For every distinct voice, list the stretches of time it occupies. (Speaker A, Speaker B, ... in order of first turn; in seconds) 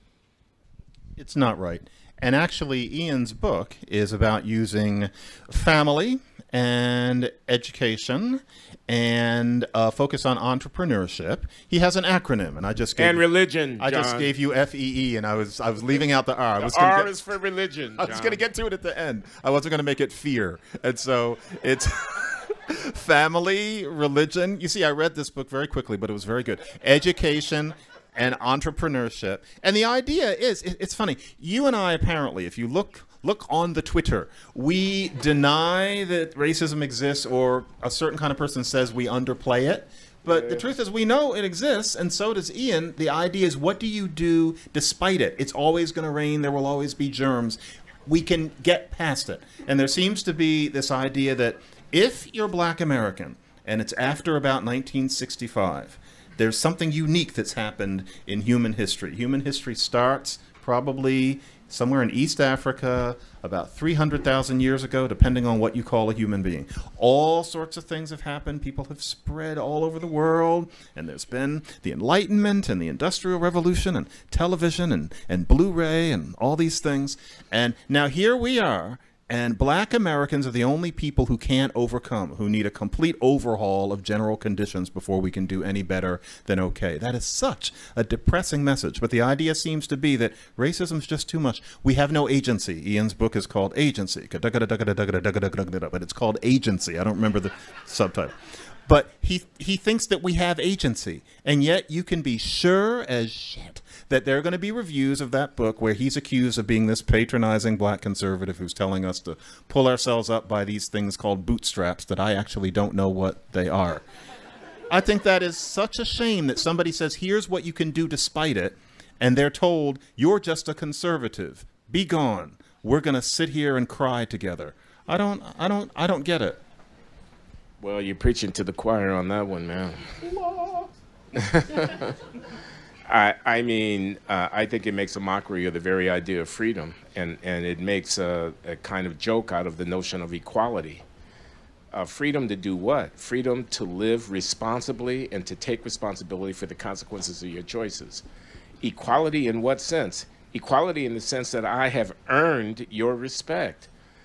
Speaker A: 1.2-13.2, 13.8-17.1, 18.0-98.3, 98.9-114.0, 114.9-126.6
Speaker B: 12.9-14.3, 16.6-18.4, 40.2-40.7, 127.8-130.2, 131.3-132.2, 133.1-141.0, 141.9-148.2, 148.8-153.9